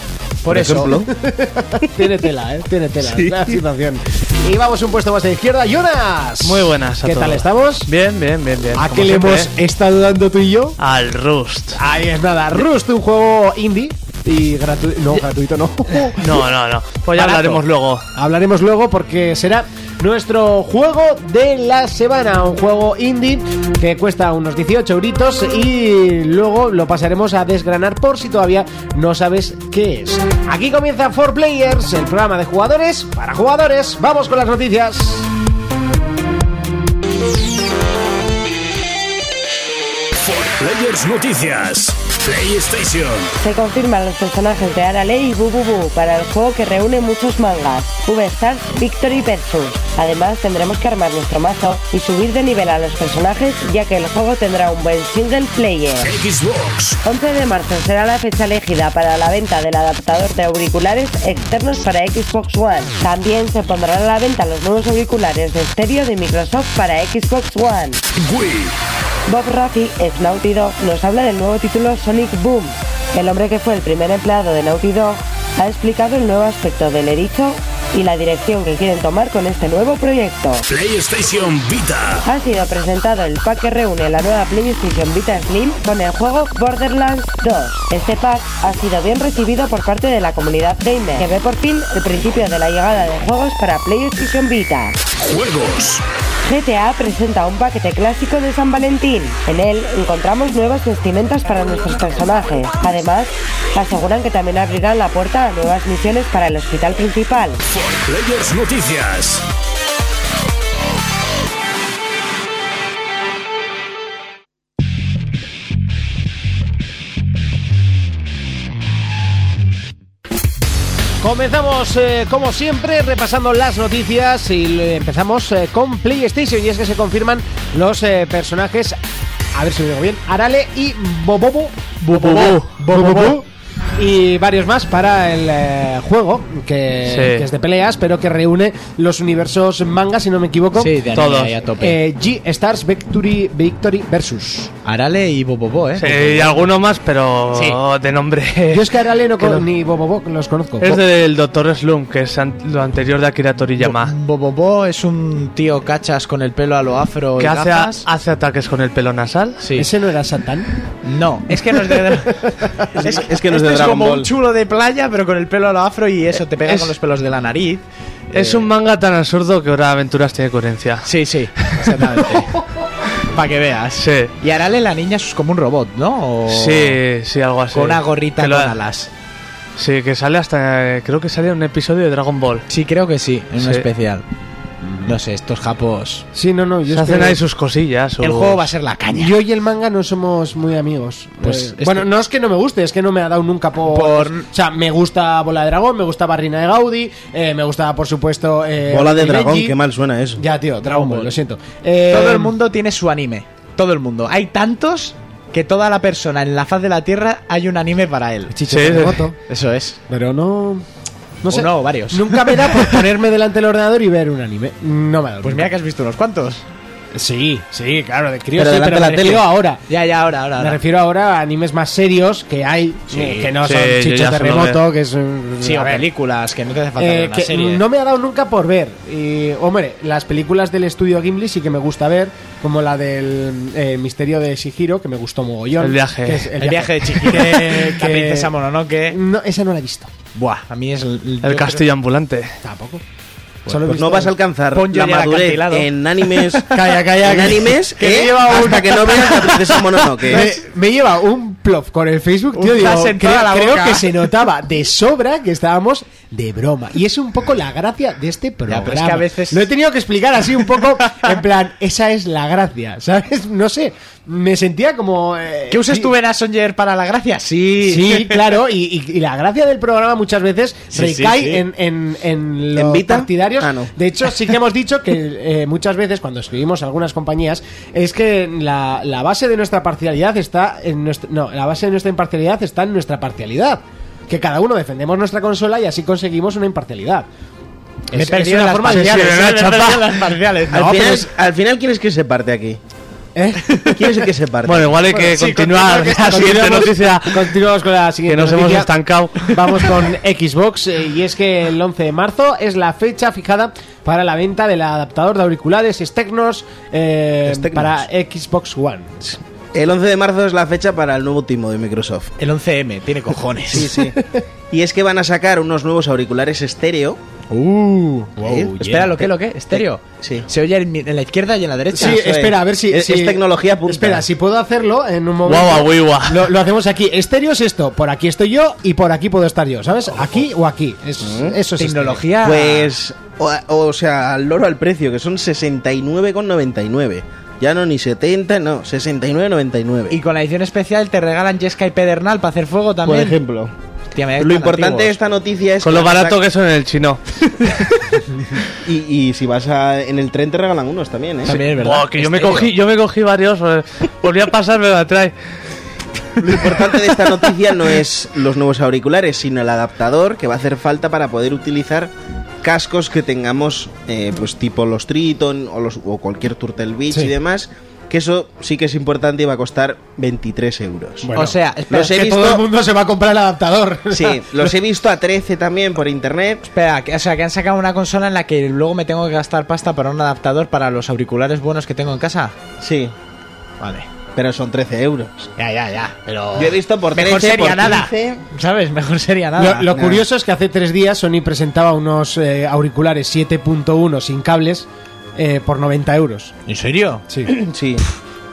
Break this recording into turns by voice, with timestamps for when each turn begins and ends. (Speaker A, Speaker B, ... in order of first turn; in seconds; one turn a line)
Speaker A: 0.4-1.0
Speaker B: 0.5-1.1
Speaker C: 1.1-7.9
Speaker B: 3.0-3.6
Speaker D: 6.4-9.5
Speaker C: 8.7-10.8
Speaker D: 10.8-11.8
Speaker C: 11.7-16.5
Speaker D: 16.2-18.1
Speaker C: 17.1-17.6
Speaker C: 18.1-35.3
Speaker E: 40.2-43.3
Speaker F: 43.4-56.1
Speaker E: 56.0-57.0
Speaker F: 57.0-68.0
Speaker E: 68.2-68.7
Speaker F: 69.3-80.7
Speaker E: 80.7-82.2
Speaker F: 82.2-95.0
Speaker E: 95.2-96.0
Speaker F: 96.4-107.6
Speaker E: 107.7-109.4
Speaker C: 121.2-129.0
Speaker C: 129.5-133.4
Speaker D: 132.1-133.0
Speaker A: 132.9-133.2
Speaker C: 134.0-140.9
Speaker D: 137.1-137.4
Speaker A: 140.7-142.0
Speaker D: 141.1-141.5
Speaker C: 141.8-144.7
Speaker A: 144.8-146.7
Speaker D: 146.0-149.6
Speaker A: 147.5-147.8
Speaker C: 148.7-151.0
Speaker D: 150.8-154.1
Speaker A: 153.8-158.1
Speaker D: 157.4-159.6
Speaker A: 159.6-159.9
Speaker C: 159.8-160.7
Speaker A: 161.0-167.8
Speaker C: 162.1-163.1
Speaker B: 163.0-164.3
Speaker D: 166.6-166.9
Speaker D: 168.3-172.2
Speaker B: 168.3-168.6
Speaker A: 171.0-172.6
Speaker A: 173.2-177.0
Speaker D: 174.0-174.3
Speaker D: 176.5-178.8
Speaker A: 177.7-179.1
Speaker D: 179.8-182.7
Speaker A: 182.7-184.2
Speaker D: 183.6-183.8
Speaker A: 185.0-186.2
Speaker C: 186.3-187.4
Speaker D: 186.9-188.7
Speaker A: 188.2-189.3
Speaker C: 189.1-199.7
Speaker A: 191.4-192.1
Speaker A: 193.9-194.4
Speaker B: 198.9-200.4
Speaker C: 200.4-202.5
Speaker A: 200.8-201.3
Speaker A: 202.1-208.6
Speaker C: 208.5-209.3
Speaker D: 208.7-209.2
Speaker A: 209.5-210.0
Speaker C: 210.1-210.9
Speaker C: 211.4-215.7
Speaker A: 211.5-213.1
Speaker A: 215.4-216.7
Speaker C: 217.1-219.8
Speaker B: 218.5-219.4
Speaker A: 219.9-220.8
Speaker C: 220.6-226.1
Speaker A: 223.1-223.5
Speaker D: 223.6-224.8
Speaker A: 225.6-227.8
Speaker C: 227.0-238.5
Speaker D: 235.8-236.5
Speaker A: 236.6-239.2
Speaker C: 239.1-240.1
Speaker A: 240.3-241.8
Speaker D: 241.4-242.6
Speaker C: 242.6-243.0
Speaker C: 243.7-244.3
Speaker B: 243.9-250.5
Speaker A: 244.7-246.8
Speaker C: 246.7-249.7
Speaker A: 248.0-249.6
Speaker C: 250.2-266.1
Speaker A: 250.3-250.6
Speaker A: 252.5-254.3
Speaker A: 258.7-259.6
Speaker A: 260.7-261.3
Speaker A: 265.7-268.6
Speaker C: 267.8-287.3
Speaker A: 270.9-271.6
Speaker B: 272.7-273.9
Speaker A: 288.1-291.3
Speaker C: 288.1-289.3
Speaker D: 288.9-290.2
Speaker B: 290.7-292.8
Speaker C: 293.3-293.9
Speaker A: 293.6-294.0
Speaker B: 293.9-295.0
Speaker D: 294.6-297.6
Speaker C: 295.0-309.4
Speaker A: 295.3-296.8
Speaker D: 298.3-299.6
Speaker B: 307.5-308.0
Speaker B: 309.7-312.3
Speaker A: 312.4-313.9
Speaker B: 313.6-314.2
Speaker C: 313.8-314.4
Speaker B: 314.7-317.2
Speaker A: 317.5-322.2
Speaker B: 318.4-318.7
Speaker C: 318.4-319.2
Speaker B: 319.7-320.4
Speaker C: 321.9-332.3
Speaker B: 322.0-324.2
Speaker D: 325.4-326.5
Speaker B: 331.2-331.6
Speaker A: 331.8-332.9
Speaker B: 332.4-340.2
Speaker A: 340.1-343.4
Speaker B: 343.0-343.7
Speaker A: 344.1-345.2
Speaker B: 344.4-346.4
Speaker D: 345.8-347.2
Speaker B: 348.8-351.5
Speaker A: 351.4-352.7
Speaker D: 351.4-355.3
Speaker B: 356.4-362.1
Speaker B: 362.6-371.3
Speaker C: 371.2-371.5
Speaker A: 371.4-372.6
Speaker B: 371.9-372.6
Speaker C: 372.4-374.4
Speaker B: 374.1-376.6
Speaker A: 376.7-382.5
Speaker B: 382.8-383.1
Speaker A: 383.8-384.1
Speaker B: 384.3-385.5
Speaker A: 385.6-390.0
Speaker B: 386.5-388.4
Speaker C: 389.6-396.5
Speaker B: 389.9-390.2
Speaker A: 396.6-397.3
Speaker B: 397.4-398.1